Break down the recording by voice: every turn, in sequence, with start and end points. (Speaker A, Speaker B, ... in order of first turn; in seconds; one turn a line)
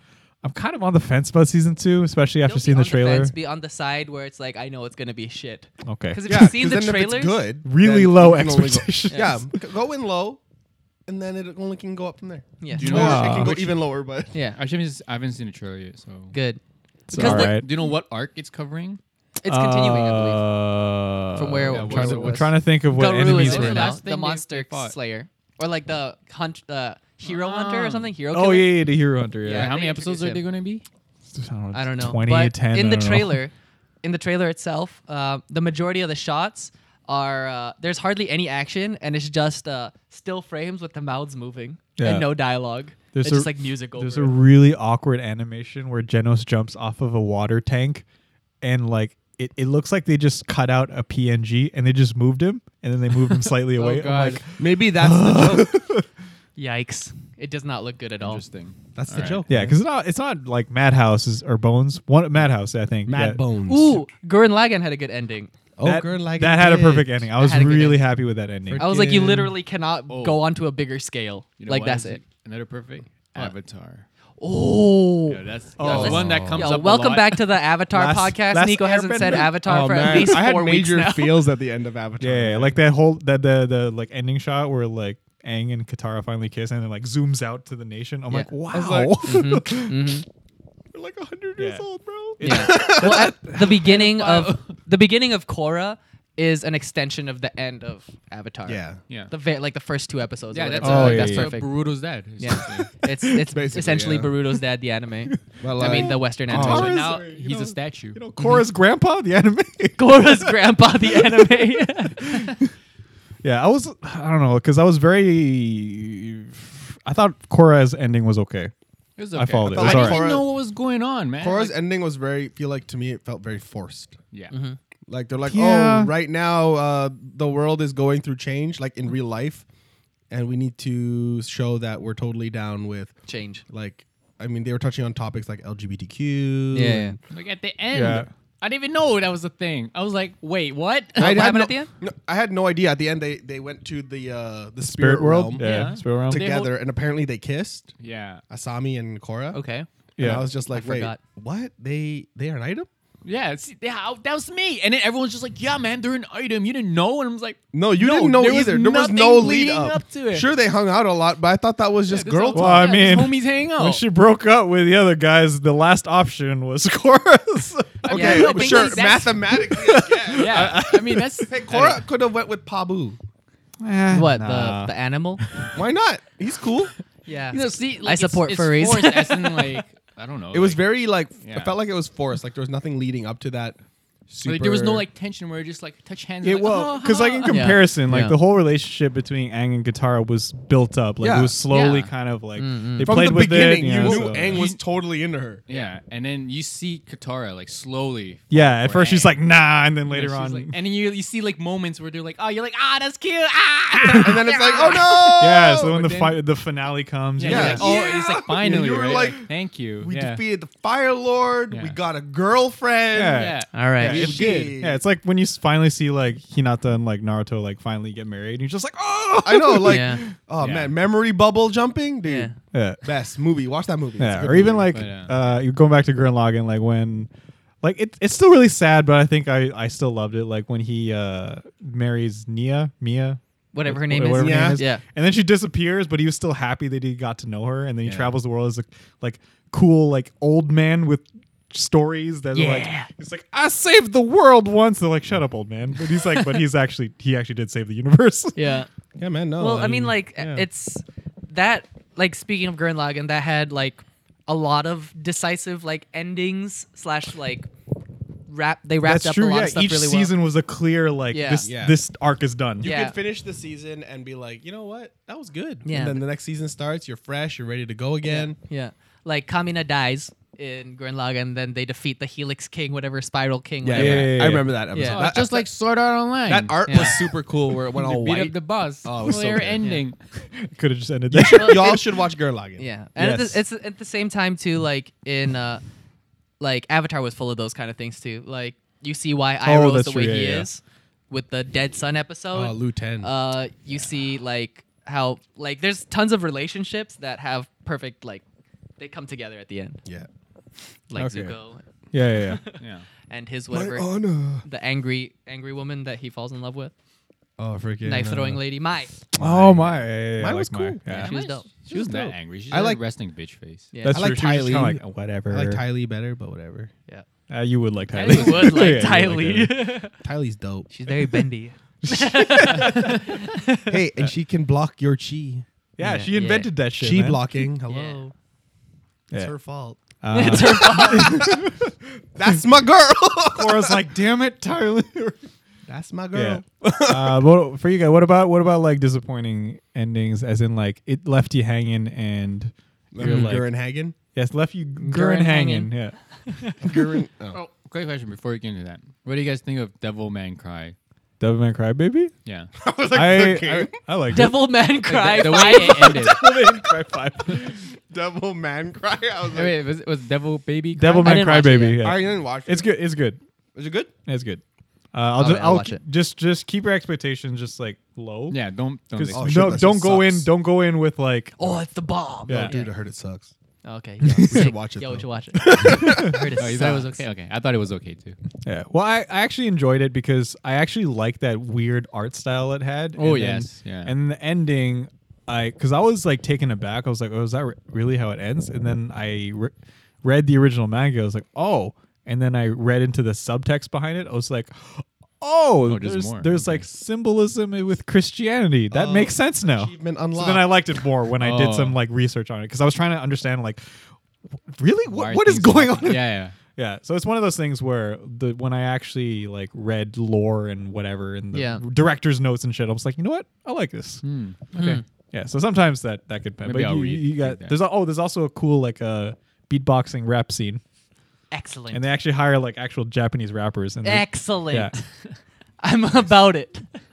Speaker A: 0.4-3.3
Speaker B: 2.4-7.4
Speaker A: 5.8-6.5
Speaker C: 6.2-10.4
Speaker A: 7.6-9.6
Speaker B: 9.1-9.4
Speaker C: 11.1-14.3
Speaker B: 12.6-13.3
Speaker A: 12.8-13.8
Speaker D: 12.8-13.6
Speaker B: 14.3-14.6
Speaker D: 14.6-16.3
Speaker B: 16.3-16.6
Speaker A: 17.1-17.7
Speaker B: 17.1-17.6
Speaker D: 17.1-19.0
Speaker B: 19.4-20.6
Speaker A: 19.4-24.0
Speaker B: 21.3-30.4
Speaker D: 21.7-24.9
Speaker D: 27.2-28.1
Speaker A: 28.3-29.7
Speaker D: 29.4-30.8
Speaker A: 31.3-33.4
Speaker B: 31.7-33.5
Speaker B: 34.0-44.4
Speaker A: 42.0-42.3
Speaker A: 43.1-48.0
Speaker A: 48.6-56.0
Speaker D: 53.6-54.4
Speaker C: 54.6-55.8
Speaker B: 56.6-58.4
Speaker D: 58.2-59.4
Speaker C: 59.0-59.8
Speaker A: 59.5-63.4
Speaker C: 63.0-64.0
Speaker B: 63.7-65.5
Speaker C: 65.8-67.2
Speaker A: 65.8-68.9
Speaker B: 67.4-68.1
Speaker C: 68.7-69.5
Speaker B: 68.7-72.2
Speaker D: 70.1-70.4
Speaker D: 71.6-74.0
Speaker B: 74.4-81.4
Speaker D: 75.3-77.4
Speaker A: 75.8-76.5
Speaker C: 75.9-76.6
Speaker A: 77.9-80.4
Speaker C: 79.4-82.8
Speaker A: 82.2-90.2
Speaker C: 88.7-89.4
Speaker B: 89.2-90.2
Speaker C: 90.9-93.4
Speaker A: 91.6-91.8
Speaker A: 92.4-93.4
Speaker B: 92.4-101.7
Speaker D: 93.6-94.7
Speaker C: 98.7-99.0
Speaker D: 100.5-102.9
Speaker A: 100.8-101.5
Speaker B: 102.4-107.2
Speaker C: 103.4-104.4
Speaker C: 105.6-107.2
Speaker A: 105.9-112.6
Speaker D: 106.5-108.2
Speaker B: 110.0-112.6
Speaker A: 113.4-118.7
Speaker D: 119.2-121.8
Speaker A: 119.3-120.3
Speaker C: 119.6-120.5
Speaker C: 121.4-124.2
Speaker B: 124.5-124.8
Speaker C: 125.1-129.6
Speaker A: 125.5-126.1
Speaker C: 130.3-133.1
Speaker B: 133.3-133.6
Speaker C: 133.7-137.2
Speaker B: 136.7-137.2
Speaker D: 137.3-141.4
Speaker A: 137.9-138.3
Speaker B: 141.2-141.9
Speaker C: 141.2-147.9
Speaker A: 144.8-146.4
Speaker D: 145.6-146.7
Speaker D: 148.0-148.4
Speaker C: 148.5-149.6
Speaker B: 149.5-149.9
Speaker A: 150.2-150.5
Speaker C: 150.2-152.9
Speaker B: 150.7-151.2
Speaker D: 153.2-160.5
Speaker C: 157.7-163.2
Speaker D: 162.1-164.0
Speaker A: 162.5-168.1
Speaker D: 168.0-172.0
Speaker C: 168.1-170.9
Speaker B: 168.1-169.1
Speaker A: 169.5-171.5
Speaker C: 171.5-173.2
Speaker A: 173.8-174.9
Speaker B: 174.1-175.4
Speaker C: 175.7-176.9
Speaker B: 177.2-179.8
Speaker D: 177.5-181.8
Speaker C: 180.5-185.0
Speaker D: 184.4-187.8
Speaker A: 186.4-194.7
Speaker B: 187.5-188.4
Speaker C: 191.2-191.6
Speaker B: 191.7-193.3
Speaker C: 193.0-195.6
Speaker D: 193.8-194.8
Speaker D: 195.7-199.4
Speaker A: 198.5-200.8
Speaker D: 200.1-206.4
Speaker C: 204.1-205.9
Speaker B: 204.7-205.1
Speaker A: 205.4-208.1
Speaker D: 207.4-210.4
Speaker C: 207.4-209.4
Speaker B: 207.5-207.8
Speaker C: 210.0-213.5
Speaker D: 211.7-211.9
Speaker A: 213.1-220.2
Speaker D: 213.3-214.8
Speaker B: 213.7-214.2
Speaker C: 214.0-215.0
Speaker C: 219.4-224.9
Speaker B: 219.8-220.2
Speaker D: 220.6-220.9
Speaker B: 222.2-222.5
Speaker A: 222.7-223.0
Speaker A: 224.2-227.3
Speaker D: 224.7-225.6
Speaker A: 227.8-248.7
Speaker B: 233.7-235.0
Speaker C: 234.3-234.8
Speaker B: 242.5-243.1
Speaker B: 248.6-248.9
Speaker C: 249.2-250.6
Speaker B: 249.6-257.7
Speaker B: 258.5-260.3
Speaker A: 259.0-262.9
Speaker B: 261.3-261.7
Speaker C: 261.6-262.0
Speaker C: 262.8-268.6
Speaker B: 262.8-263.1
Speaker B: 265.8-266.2
Speaker B: 268.2-275.2
Speaker C: 273.8-275.7
Speaker A: 273.9-274.7
Speaker D: 274.9-280.2
Speaker C: 276.5-279.8
Speaker B: 276.9-277.2
Speaker A: 280.5-282.0
Speaker C: 281.3-282.8
Speaker B: 281.5-282.0
Speaker B: 282.8-285.8
Speaker A: 283.2-283.5
Speaker B: 286.6-298.4
Speaker A: 289.6-290.7
Speaker C: 292.5-293.3
Speaker B: 299.0-300.0
Speaker B: 301.1-304.1
Speaker A: 301.1-301.5
Speaker A: 302.1-302.6
Speaker D: 302.8-303.1
Speaker C: 303.7-304.6
Speaker B: 304.6-306.9
Speaker C: 307.6-308.6
Speaker B: 308.0-309.1
Speaker C: 309.3-311.1
Speaker A: 309.4-311.4
Speaker B: 311.1-311.7
Speaker D: 311.1-313.9
Speaker C: 311.9-313.0
Speaker B: 313.9-314.2
Speaker A: 314.0-315.8
Speaker C: 314.1-316.9
Speaker A: 317.5-319.9
Speaker B: 318.1-320.1
Speaker C: 320.2-320.9
Speaker B: 320.9-324.0
Speaker A: 322.0-323.4
Speaker C: 323.9-325.6
Speaker A: 326.0-327.4
Speaker B: 326.0-326.7
Speaker C: 327.0-328.2
Speaker B: 327.9-328.3
Speaker C: 329.3-331.7
Speaker A: 330.2-331.9
Speaker B: 330.3-331.6
Speaker C: 332.3-334.0
Speaker A: 333.5-335.4
Speaker C: 335.9-337.4
Speaker A: 336.3-343.7
Speaker C: 343.1-344.1
Speaker D: 343.2-343.6
Speaker A: 344.3-346.1
Speaker B: 345.0-345.9
Speaker B: 346.4-346.9
Speaker C: 346.8-347.6
Speaker D: 347.5-350.9
Speaker A: 351.4-352.3
Speaker D: 352.4-352.7
Speaker C: 352.8-354.0
Speaker A: 353.1-354.7
Speaker B: 354.3-356.4
Speaker D: 355.1-356.5
Speaker A: 355.4-357.8
Speaker C: 357.5-359.8
Speaker D: 359.5-361.5
Speaker A: 360.9-363.4
Speaker B: 361.1-362.0
Speaker C: 361.9-363.0
Speaker C: 363.7-364.1
Speaker A: 364.2-364.6
Speaker A: 365.1-368.6
Speaker B: 365.4-366.0
Speaker D: 368.5-369.8
Speaker A: 369.1-371.7
Speaker C: 369.3-370.5
Speaker B: 371.6-372.9
Speaker A: 372.5-372.7
Speaker C: 372.5-373.5
Speaker B: 373.8-377.2
Speaker C: 374.2-376.4
Speaker A: 374.3-374.6
Speaker A: 375.6-376.4
Speaker D: 376.4-378.4
Speaker A: 378.6-389.7
Speaker D: 383.2-384.1
Speaker A: 390.2-403.8
Speaker D: 395.8-396.8
Speaker C: 398.9-400.7
Speaker D: 401.4-402.0
Speaker A: 404.7-414.2
Speaker D: 405.1-406.6
Speaker B: 411.5-411.8
Speaker D: 414.2-415.0
Speaker B: 414.7-415.0
Speaker A: 415.3-420.8
Speaker D: 416.6-417.8
Speaker B: 421.5-422.1
Speaker A: 421.9-424.9
Speaker B: 424.0-425.0
Speaker B: 425.8-427.0